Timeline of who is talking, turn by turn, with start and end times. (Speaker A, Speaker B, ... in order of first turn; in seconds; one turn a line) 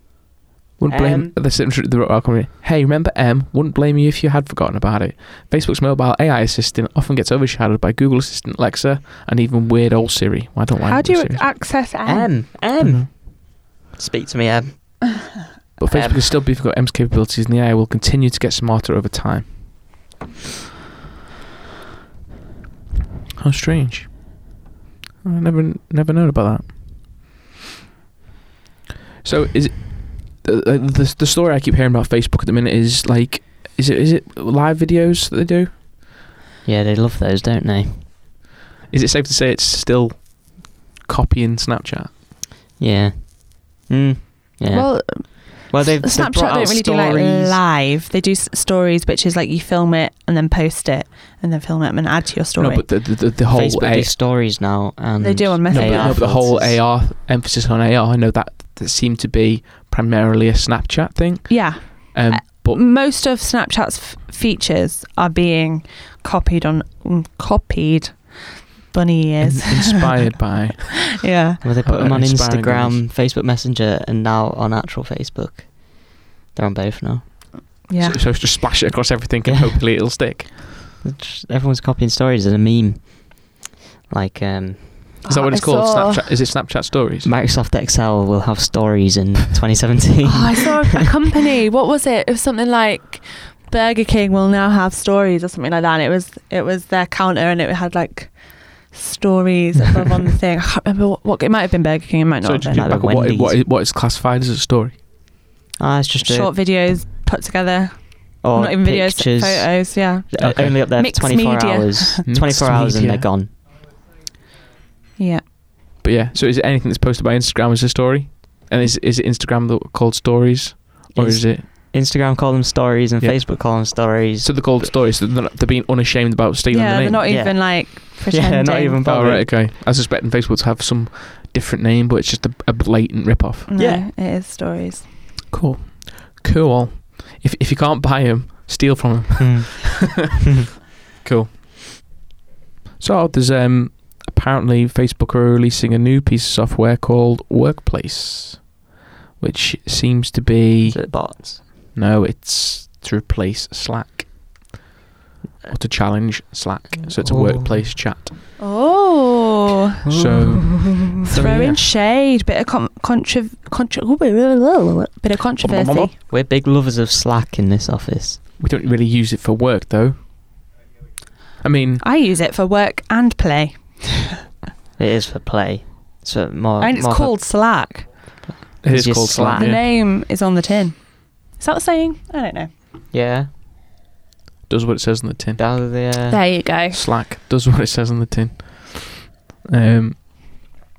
Speaker A: 0.8-11.5
Speaker B: 0.9-1.4
Speaker C: 10.8-12.3
Speaker B: 12.0-15.3
Speaker A: 12.8-13.1
Speaker A: 15.8-19.8
Speaker B: 15.9-16.2
Speaker A: 23.4-24.5
Speaker A: 25.2-27.0
Speaker A: 29.2-35.7
Speaker B: 36.6-38.1
Speaker A: 38.9-42.1
Speaker B: 42.8-47.6
Speaker C: 44.7-52.9
Speaker A: 52.6-54.1
Speaker B: 53.5-56.8
Speaker C: 55.2-56.3
Speaker A: 55.7-62.8
Speaker C: 61.5-70.6
Speaker A: 69.4-71.2
Speaker C: 71.2-71.6
Speaker B: 71.6-77.2
Speaker A: 71.8-73.0
Speaker C: 77.9-78.2
Speaker A: 78.0-80.5
Speaker B: 79.5-79.8
Speaker B: 81.0-85.2
Speaker C: 85.2-86.4
Speaker A: 85.3-87.3
Speaker B: 87.2-91.0
Speaker C: 90.2-102.9
Speaker A: 102.4-105.0
Speaker B: 102.7-103.6
Speaker B: 105.8-106.6
Speaker C: 106.2-112.2
Speaker B: 108.4-113.5
Speaker A: 110.4-110.8
Speaker A: 112.2-113.3
Speaker C: 115.2-115.5
Speaker A: 116.0-121.7
Speaker B: 121.1-124.8
Speaker A: 124.4-127.2
Speaker C: 126.7-129.0
Speaker B: 127.2-129.5
Speaker A: 129.0-133.7
Speaker C: 133.7-135.1
Speaker B: 133.8-134.1
Speaker A: 135.5-139.9
Speaker B: 139.4-140.2
Speaker A: 141.2-142.0
Speaker A: 143.0-148.8
Speaker A: 149.4-154.7
Speaker B: 150.9-151.6
Speaker A: 155.7-158.3
Speaker B: 157.1-157.9
Speaker C: 158.6-160.0
Speaker B: 160.0-161.8
Speaker A: 160.1-161.1
Speaker C: 161.2-166.1
Speaker A: 165.6-166.1
Speaker B: 166.3-168.4
Speaker A: 168.6-170.3
Speaker A: 171.6-172.0
Speaker C: 172.0-174.4
Speaker B: 175.0-177.4
Speaker C: 176.8-178.1
Speaker B: 178.5-179.7
Speaker A: 178.8-179.8
Speaker C: 179.5-182.7
Speaker B: 183.1-183.5
Speaker A: 184.7-185.6
Speaker B: 185.6-186.4
Speaker C: 186.3-187.0
Speaker A: 186.9-190.7